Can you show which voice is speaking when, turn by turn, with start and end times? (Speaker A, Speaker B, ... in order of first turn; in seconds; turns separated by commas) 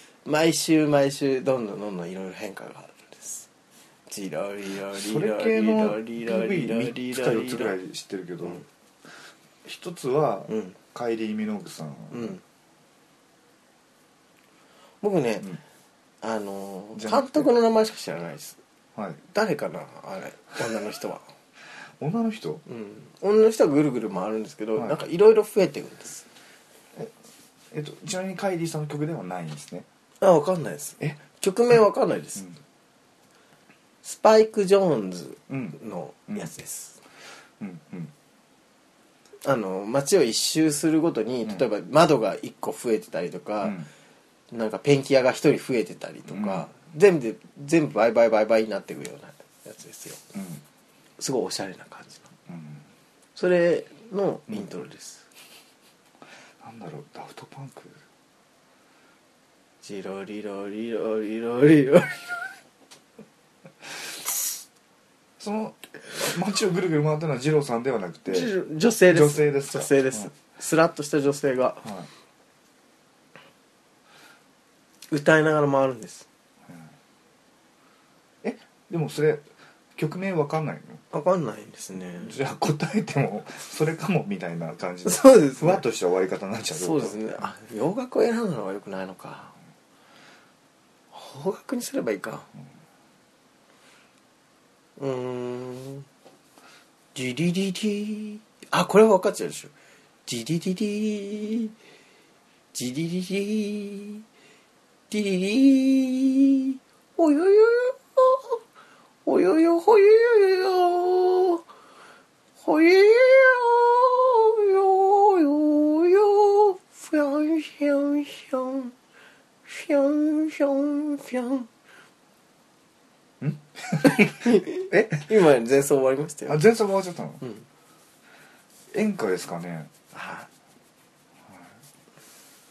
Speaker A: 0.2-3.5, Speaker A: 4.1-7.8, Speaker B: 4.9-8.6, Speaker B: 9.7-12.4, Speaker A: 10.5-10.8, Speaker A: 12.1-12.4, Speaker A: 15.0-15.5, Speaker A: 16.2-18.6, Speaker B: 16.9-17.5, Speaker B: 18.9-19.2, Speaker A: 19.3-21.2, Speaker B: 22.0-22.6, Speaker A: 22.7-26.2, Speaker B: 27.7-29.9, Speaker A: 30.2-32.5, Speaker A: 34.0-37.0, Speaker B: 35.5-36.5, Speaker B: 37.6-38.1, Speaker A: 39.4-43.8, Speaker B: 43.6-43.9, Speaker A: 44.5-50.2, Speaker B: 46.3-46.7, Speaker B: 50.3-50.6, Speaker A: 51.2-52.3, Speaker B: 52.5-52.9, Speaker A: 53.4-55.3, Speaker B: 56.6-58.0, Speaker A: 59.8-62.4, Speaker B: 65.4-68.5, Speaker A: 68.3-71.9, Speaker B: 69.1-70.3, Speaker B: 71.8-72.1, Speaker A: 75.1-76.3, Speaker B: 76.7-76.9, Speaker B: 78.4-81.0, Speaker A: 81.1-82.4, Speaker B: 82.1-87.2, Speaker A: 85.0-85.8, Speaker A: 86.8-89.5, Speaker A: 91.1-92.5, Speaker A: 95.0-96.1, Speaker A: 97.2-99.7, Speaker A: 100.3-101.8, Speaker A: 102.7-104.2, Speaker A: 105.1-108.6, Speaker A: 109.2-111.7, Speaker A: 112.6-119.0, Speaker A: 119.7-121.7, Speaker B: 123.4-125.0, Speaker A: 124.0-126.6, Speaker B: 126.5-127.4, Speaker B: 128.9-130.0, Speaker A: 130.1-130.5, Speaker B: 131.4-131.7